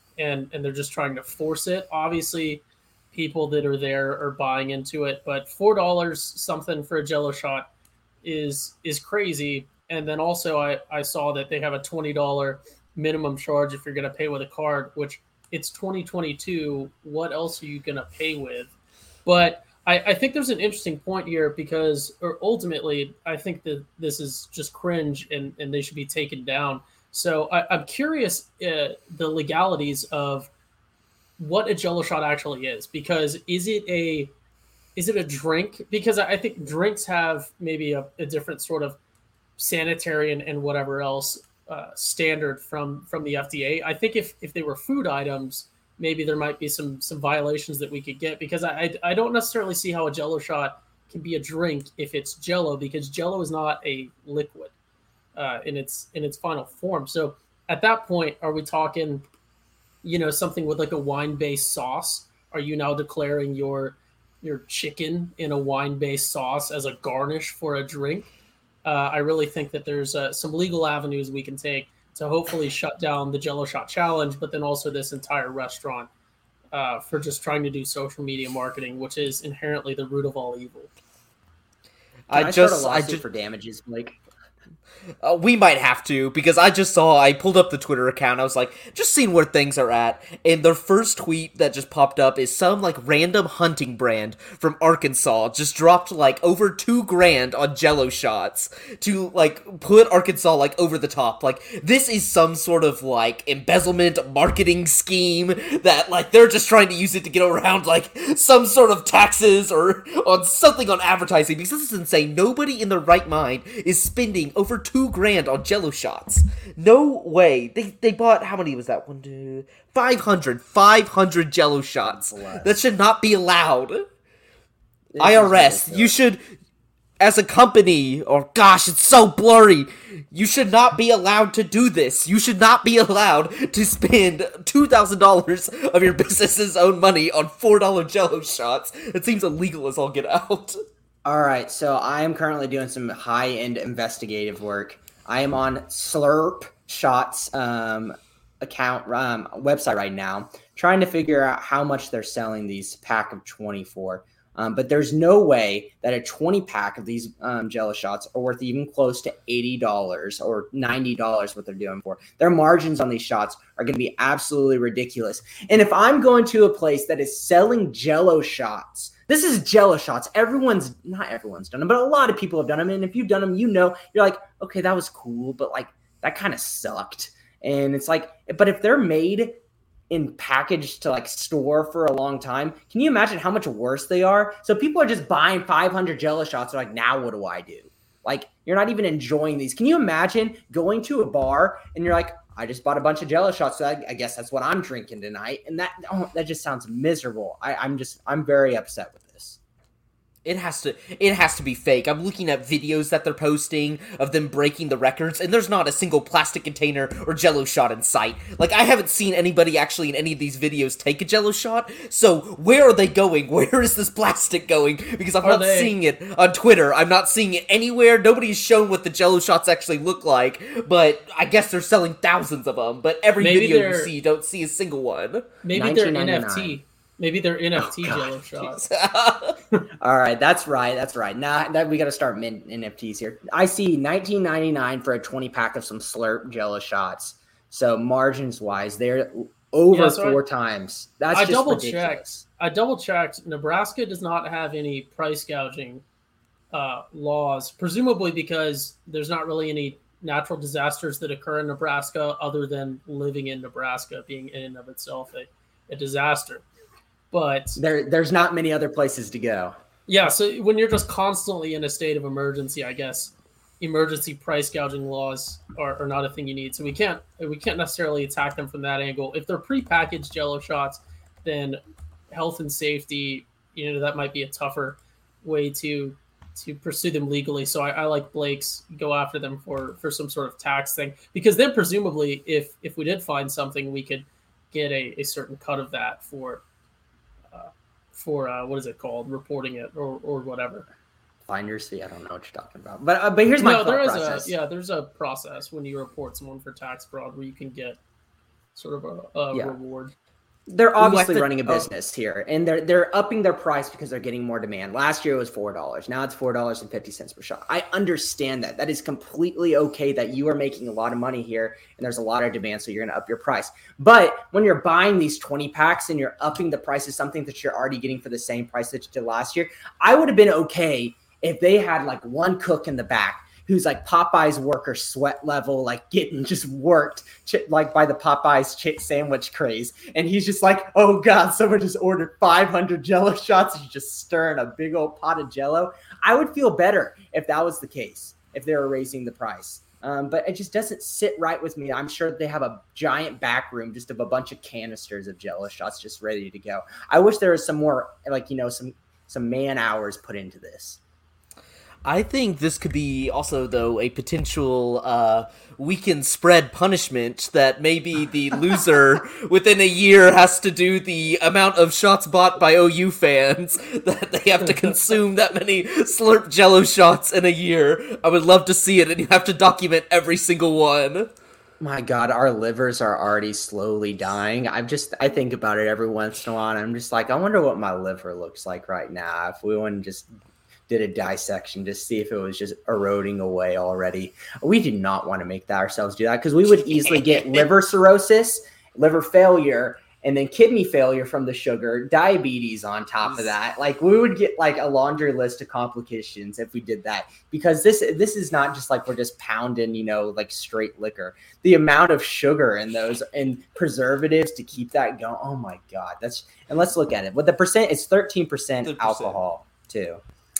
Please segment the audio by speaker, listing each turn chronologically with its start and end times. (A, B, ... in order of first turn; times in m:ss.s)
0:00.2-0:07.7 A
0:08.2-0:18.7 A
0:19.2-0:30.5 A
0:31.4-0:34.3 A
0:35.0-0:39.0 A
0:39.6-0:54.7 A
0:55.4-0:59.2 A
1:00.0-1:08.3 A
1:08.8-1:16.1 A
1:16.7-1:20.9 A
1:22.3-1:23.2 B
1:22.3-1:24.2 C
1:25.2-2:04.0 B
2:02.0-2:02.8 C
2:05.1-2:06.1 C
2:05.2-2:06.4 B
2:07.2-2:20.8 B
2:21.2-2:59.6 C
3:00.1-3:19.6 C
3:20.4-3:45.5 B
3:35.4-3:35.9 A
3:43.4-3:44.1 A
3:45.6-3:48.8 A
3:45.7-3:46.8 C
3:47.8-3:48.4 C
3:48.6-3:49.6 B
3:50.0-4:02.4 C
3:59.9-4:00.4 A
4:01.3-4:06.0 A
4:06.7-4:16.6 A
4:17.3-4:17.8 A
4:17.8-4:19.8 C
4:20.1-4:31.8 A
4:32.3-4:46.6 A
4:47.5-4:50.9 A
4:51.5-4:54.5 C
4:53.6-4:58.0 A
4:58.8-5:00.1 A
5:00.7-5:51.0 C
5:01.0-5:01.9 A
5:52.0-6:11.3 B
6:11.8-6:20.3 C
6:20.9-6:50.2 C
6:33.2-6:33.5 B
6:48.8-6:49.4 B